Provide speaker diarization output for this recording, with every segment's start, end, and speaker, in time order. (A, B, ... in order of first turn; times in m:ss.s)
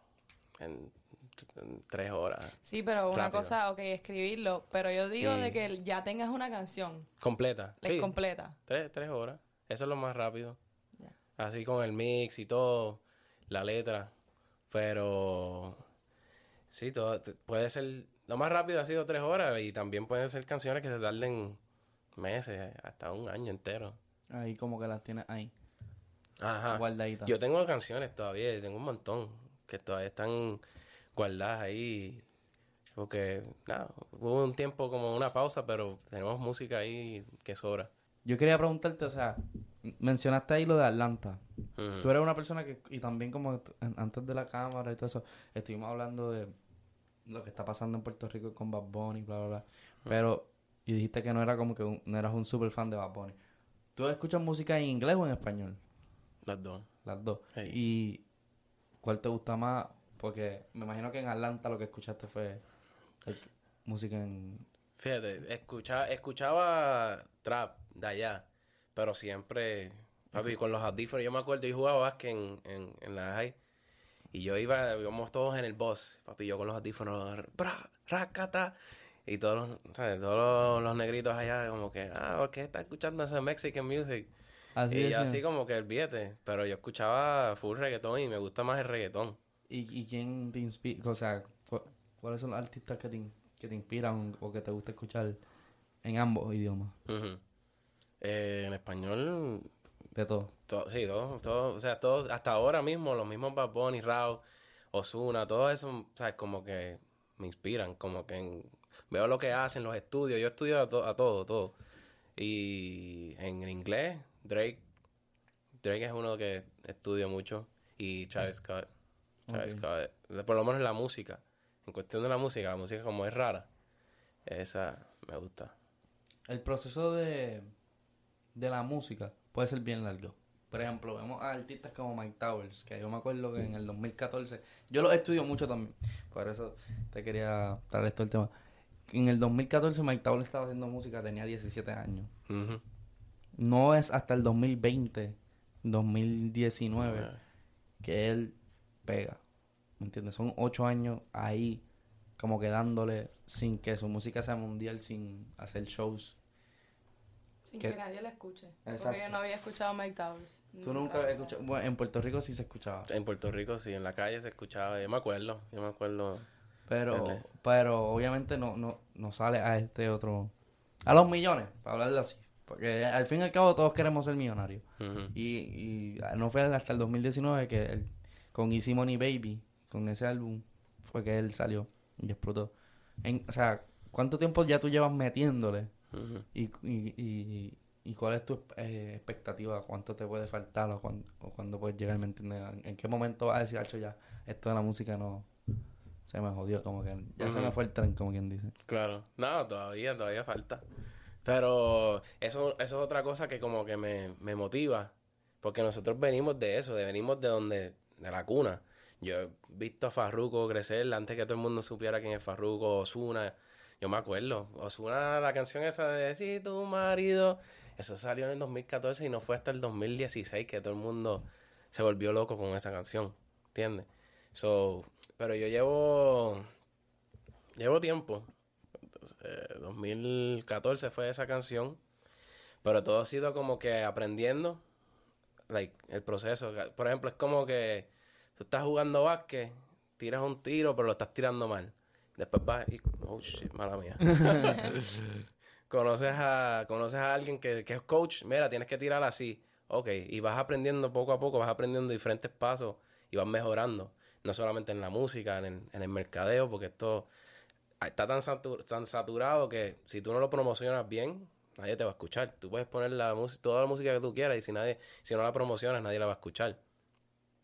0:00.6-0:02.6 A
0:02.6-0:07.1 B
0:03.1-0:03.5 A
0:05.2-0:05.6 A
0:07.2-0:08.1 A
0:07.8-0:08.6 B
0:08.6-0:10.6 A
0:11.4-0:14.1 A
0:14.7-0:15.8 A
0:16.7-0:21.6 A
0:22.2-0:24.0 A
0:24.3-0:25.5 C
0:26.4-0:30.6 A
0:26.7-0:27.3 C
0:31.1-0:32.2 A
0:32.9-0:37.9 A
0:38.2-0:41.4 C
0:41.8-0:42.1 A
0:42.0-0:46.5 C
0:47.2-0:53.4 C
0:54.0-0:55.8 C
0:56.4-0:56.9 A
0:57.0-0:58.2 C
0:59.0-1:02.6 C
1:03.2-1:04.6 C
1:05.0-1:13.5 A
1:14.3-1:24.3 A
1:24.7-1:25.4 C
1:24.9-1:29.4 A
1:29.7-1:35.4 C
1:36.0-1:36.9 C
1:37.0-1:37.4 A
1:38.2-1:39.7 A
1:40.1-1:40.5 C
1:40.7-1:51.8 A
1:52.4-1:54.8 A
1:55.8-1:58.8 A
1:59.5-1:59.8 C
1:59.5-2:03.7 A
2:04.4-2:05.7 A
2:06.5-2:07.7 C
2:08.5-2:18.5 C
2:19.1-2:22.3 C
2:22.5-2:22.8 A
2:23.6-2:27.3 C
2:27.0-2:27.4 A
2:28.0-2:29.4 C
2:30.0-2:31.8 C
2:32.4-2:36.4 C
2:37.6-2:41.5 B
2:38.8-2:39.3 C
2:40.8-2:43.1 C
2:43.1-2:46.5 A
2:46.9-2:50.5 C
2:47.1-2:47.4 A
2:51.0-3:05.9 C
2:55.0-2:55.3 A
3:06.1-3:06.4 A
3:06.5-3:15.5 C
3:16.2-3:18.7 C
3:17.4-3:17.8 A
3:18.9-3:20.8 A
3:21.4-3:46.7 A
3:47.8-3:48.5 A
3:49.0-3:52.0 A
3:52.8-3:54.8 A
3:55.7-4:05.3 A
4:05.9-4:17.3 A
4:18.0-4:26.8 A